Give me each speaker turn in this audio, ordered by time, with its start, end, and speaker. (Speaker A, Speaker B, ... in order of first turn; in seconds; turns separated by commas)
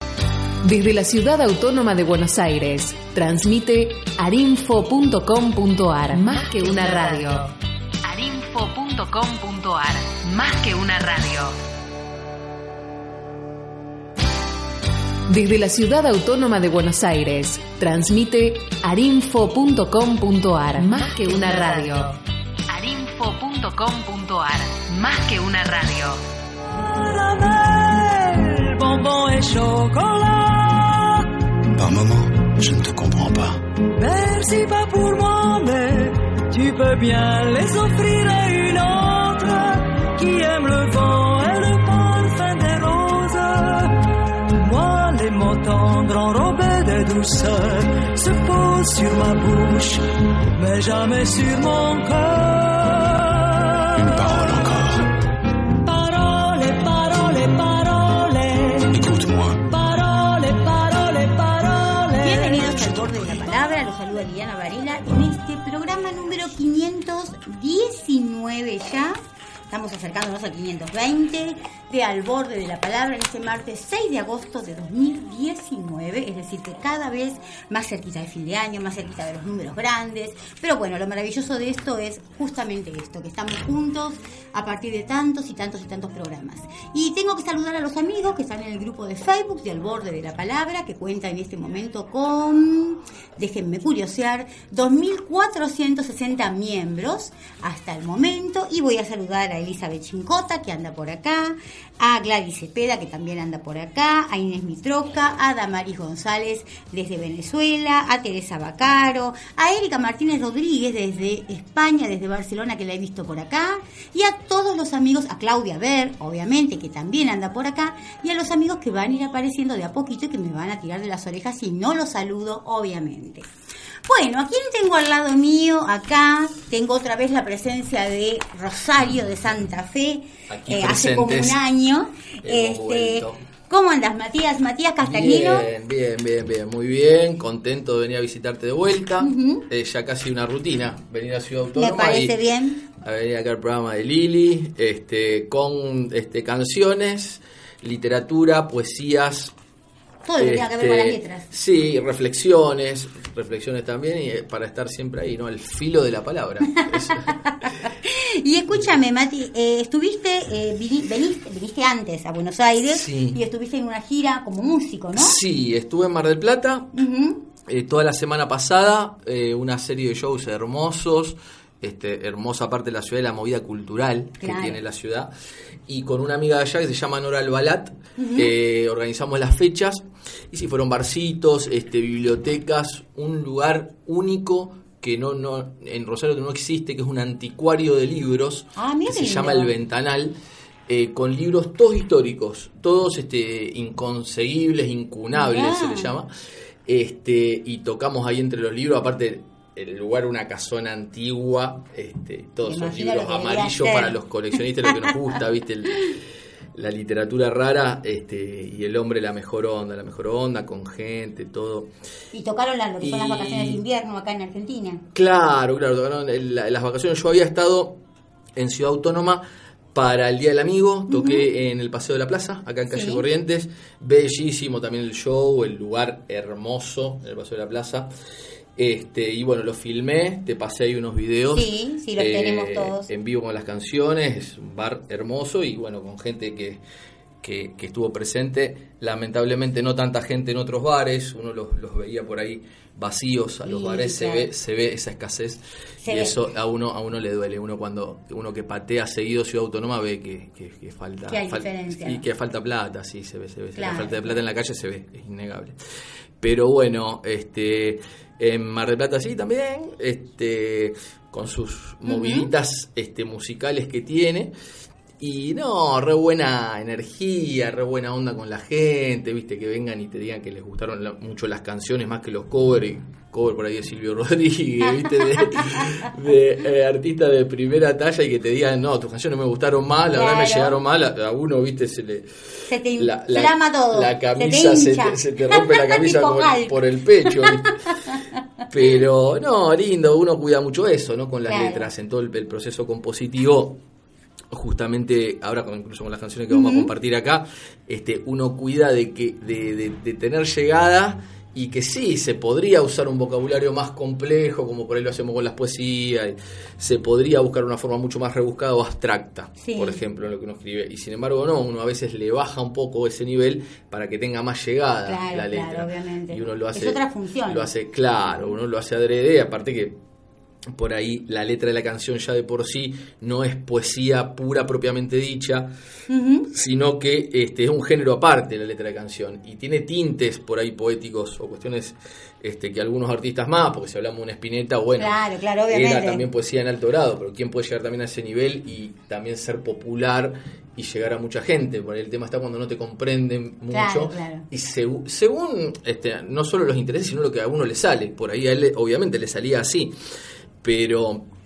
Speaker A: 0.6-11.6, Speaker A: 15.3-22.2, Speaker A: 22.7-26.2, Speaker B: 26.6-31.4, Speaker C: 31.7-33.6, Speaker B: 34.0-54.4, Speaker C: 54.0-55.0, Speaker B: 55.8-59.1, Speaker C: 58.9-59.6, Speaker B: 59.6-63.8, Speaker D: 62.2-123.5, Speaker D: 124.0-135.7, Speaker E: 130.5-131.6, Speaker E: 132.4-133.4, Speaker E: 135.0-142.3, Speaker D: 139.2-139.6, Speaker D: 141.8-142.8, Speaker E: 142.9-149.5, Speaker D: 150.2-151.5, Speaker E: 150.4-157.7, Speaker D: 157.2-165.4, Speaker E: 162.9-163.4, Speaker E: 165.2-166.9, Speaker D: 166.9-167.4, Speaker E: 167.7-175.3, Speaker D: 174.4-174.8, Speaker E: 175.9-190.3, Speaker D: 178.2-178.5, Speaker D: 188.8-189.7, Speaker E: 190.9-196.3, Speaker D: 195.3-196.1, Speaker E: 196.8-206.2, Speaker D: 202.6-204.1, Speaker E: 206.7-211.9, Speaker D: 212.3-215.0, Speaker E: 213.0-213.8, Speaker E: 215.1-218.0, Speaker E: 218.6-228.1, Speaker D: 221.1-221.5, Speaker D: 222.9-223.2, Speaker E: 228.8-236.8, Speaker D: 231.5-233.1, Speaker E: 237.4-255.7, Speaker D: 243.7-244.5, Speaker D: 246.0-246.3, Speaker D: 251.3-252.2, Speaker D: 253.8-254.3, Speaker E: 256.4-264.5, Speaker D: 262.1-262.5, Speaker E: 265.2-287.8, Speaker D: 275.4-275.9, Speaker D: 280.1-280.8, Speaker D: 282.7-288.2, Speaker E: 288.7-293.8, Speaker D: 291.5-291.9, Speaker E: 294.5-319.9, Speaker D: 296.5-296.9, Speaker D: 309.6-310.0, Speaker D: 315.1-317.7, Speaker E: 320.7-325.7, Speaker D: 326.1-326.5, Speaker E: 326.5-335.1, Speaker D: 335.0-336.2, Speaker E: 335.7-349.9, Speaker D: 343.7-344.4, Speaker E: 350.6-351.2